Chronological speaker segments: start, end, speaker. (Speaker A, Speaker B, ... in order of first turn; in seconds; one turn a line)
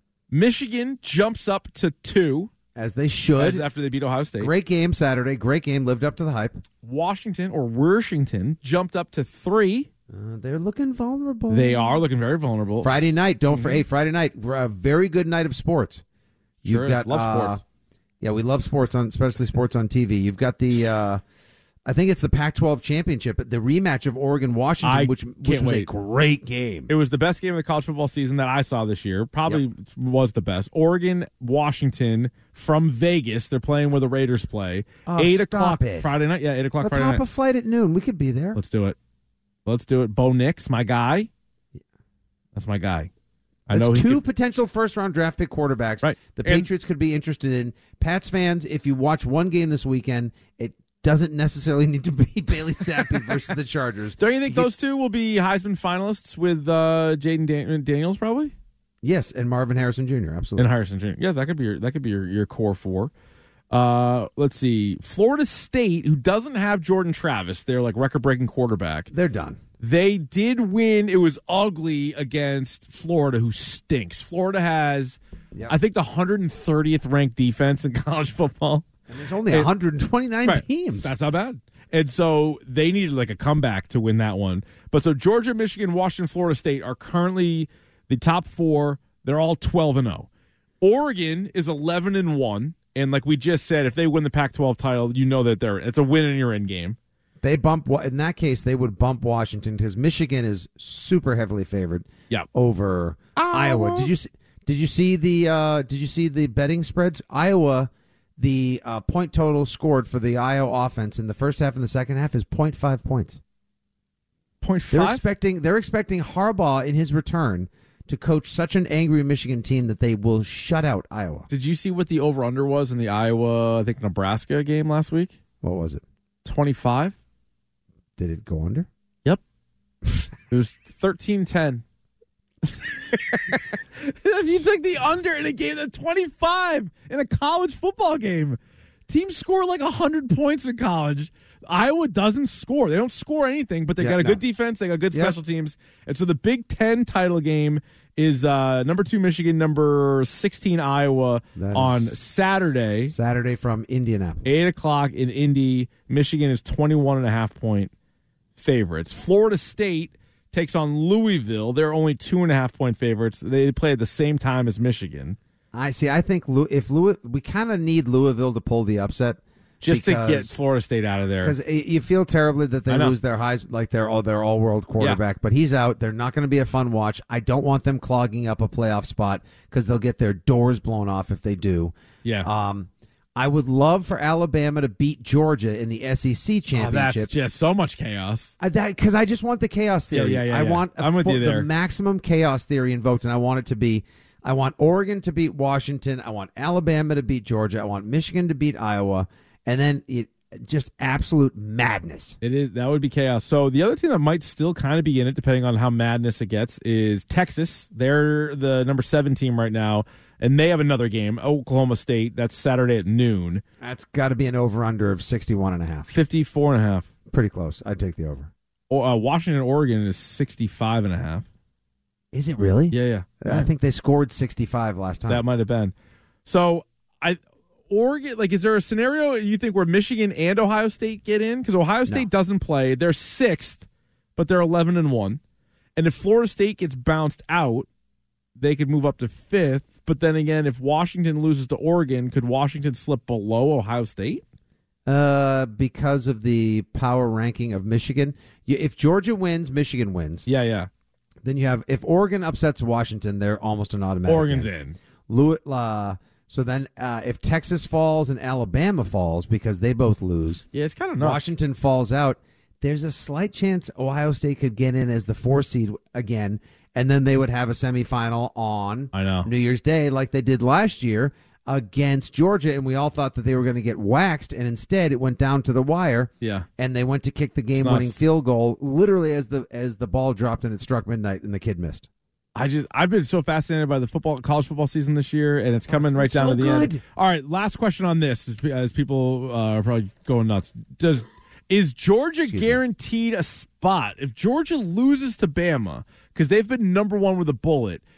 Speaker A: 0.3-2.5
Speaker B: 2.8-3.6
Speaker A: 3.4-4.5
Speaker B: 4.4-6.6
Speaker A: 6.8-9.9
Speaker B: 10.1-12.0
Speaker A: 11.5-13.8
Speaker B: 12.8-16.0
Speaker B: 16.6-17.6
Speaker A: 16.7-17.6
Speaker B: 18.2-21.2
Speaker B: 21.9-26.9
Speaker A: 24.8-25.9
Speaker A: 26.9-37.2
Speaker B: 35.1-36.2
Speaker B: 36.8-38.6
Speaker A: 38.5-39.0
Speaker A: 39.6-41.3
Speaker A: 42.5-43.1
Speaker A: 43.7-44.2
Speaker B: 43.7-54.7
Speaker A: 46.0-46.7
Speaker A: 54.2-58.5
Speaker B: 59.0-60.7
Speaker A: 60.6-63.1
Speaker A: 63.7-69.1
Speaker B: 69.1-69.6
Speaker A: 69.8-78.9
Speaker B: 79.1-81.1
Speaker A: 80.4-90.3
Speaker A: 90.8-97.0
Speaker B: 97.4-113.4
Speaker A: 103.4-104.1
Speaker A: 114.6-115.2
Speaker B: 114.9-121.5
Speaker A: 121.5-125.3
Speaker B: 125.6-126.0
Speaker A: 126.4-127.1
Speaker B: 128.2-128.9
Speaker A: 130.5-131.8
Speaker A: 132.6-153.1
Speaker B: 144.0-144.4
Speaker B: 151.6-152.2
Speaker B: 153.1-154.6
Speaker A: 154.4-157.9
Speaker A: 158.6-165.4
Speaker B: 165.7-170.6
Speaker A: 169.8-171.6
Speaker B: 171.4-187.3
Speaker A: 172.9-173.2
Speaker A: 182.2-182.5
Speaker A: 186.7-188.5
Speaker B: 188.6-202.4
Speaker A: 190.1-191.7
Speaker A: 202.4-213.6
Speaker B: 213.8-216.1
Speaker A: 216.1-217.1
Speaker B: 217.3-218.5
Speaker A: 218.9-221.5
Speaker B: 222.3-225.4
Speaker A: 222.9-223.7
Speaker A: 225.3-225.9
Speaker A: 226.5-233.8
Speaker A: 234.4-235.4
Speaker A: 236.0-237.9
Speaker A: 238.6-244.4
Speaker B: 245.1-250.5
Speaker A: 250.5-250.9
Speaker B: 251.4-254.7
Speaker A: 254.3-255.0
Speaker B: 255.3-260.6
Speaker A: 260.7-261.5
Speaker B: 261.2-282.1
Speaker A: 269.1-269.5
Speaker A: 277.8-278.1
Speaker A: 282.5-298.0
Speaker B: 285.9-287.0
Speaker B: 292.5-292.8